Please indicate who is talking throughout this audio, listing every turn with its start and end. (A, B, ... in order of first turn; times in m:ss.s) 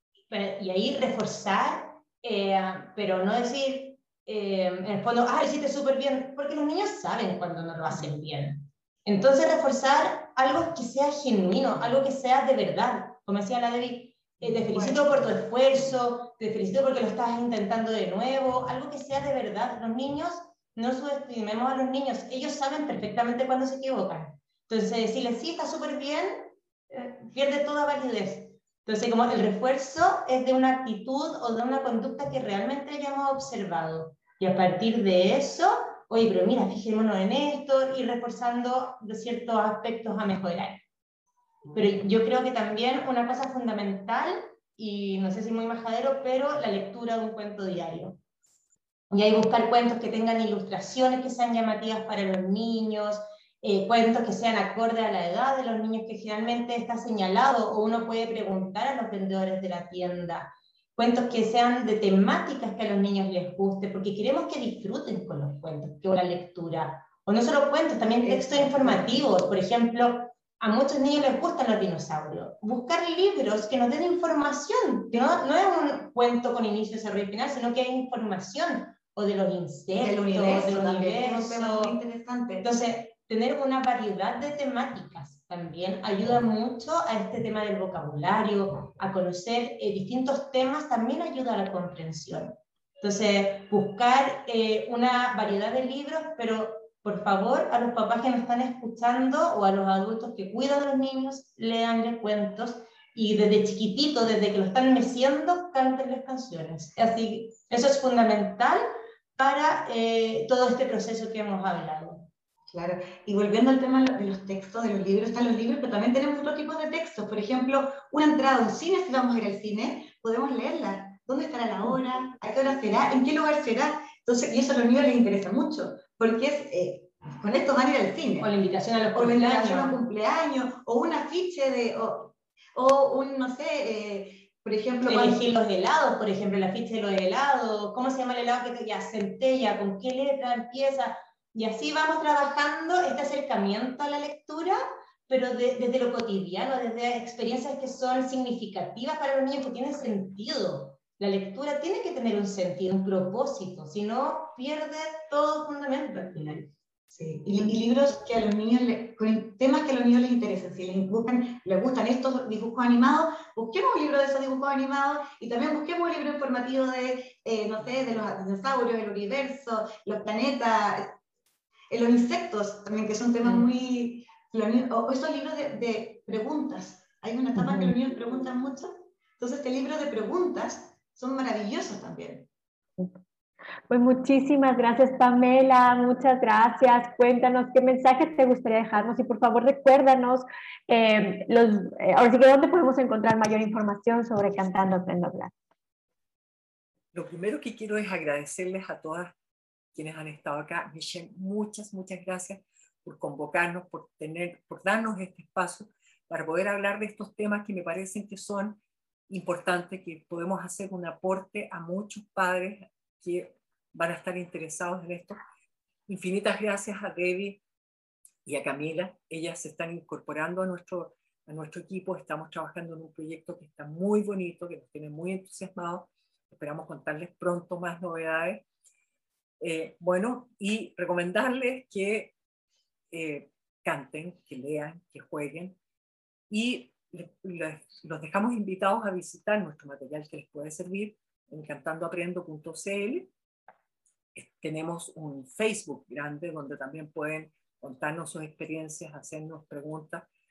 0:00.3-0:40.8 A
0:14.4-0:15.1 B
0:41.7-0:48.2 A
0:49.1-1:22.0 A
1:08.2-1:09.3 B
1:20.0-1:22.7 B
1:22.6-1:48.8 A
1:49.4-1:52.3 A
1:52.7-2:08.5 B
2:08.4-2:10.0 A
2:09.1-2:15.4 B
2:15.1-2:36.7 A
2:37.1-2:51.1 B
2:51.9-3:02.5 B
3:03.9-3:15.5 C
3:17.1-3:19.4 D
3:19.9-3:35.4 D
3:36.1-3:37.6 D
3:38.4-3:48.7 D
3:49.6-3:52.3 D
3:53.1-3:55.8 D
3:56.5-4:03.3 D
4:04.4-4:10.3 D